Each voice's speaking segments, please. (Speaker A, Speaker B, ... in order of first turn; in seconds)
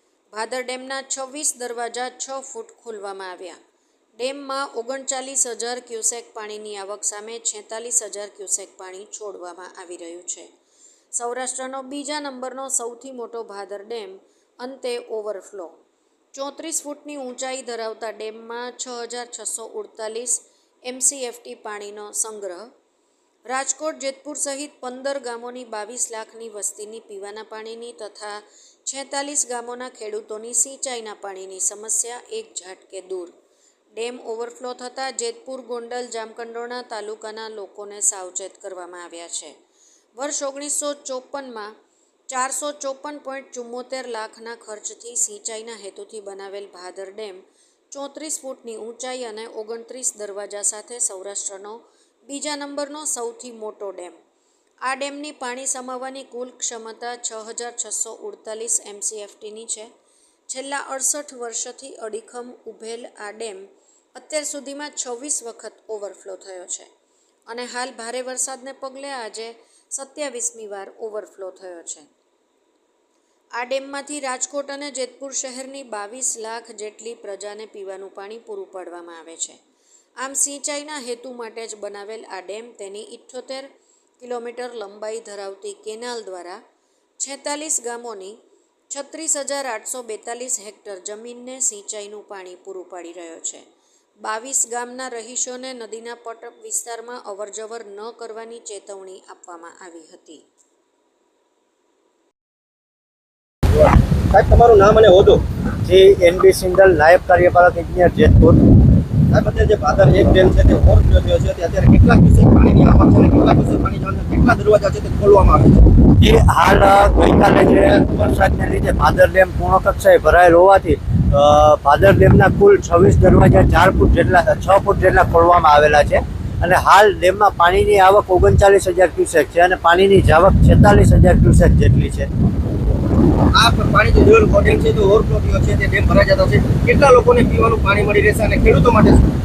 Speaker A: 0.3-3.6, 4.2-10.5, 11.1-15.7, 16.3-22.7, 23.5-33.3, 34.0-39.5, 40.2-41.7, 42.3-54.2, 54.9-59.9, 60.5-66.9, 67.5-72.1, 73.6-79.6, 80.2-86.6, 87.2-88.4, 88.9-93.6, 94.2-100.4
Speaker B: 103.8-105.4, 109.3-115.9, 133.5-139.3
Speaker C: 105.8-108.6, 116.0-132.3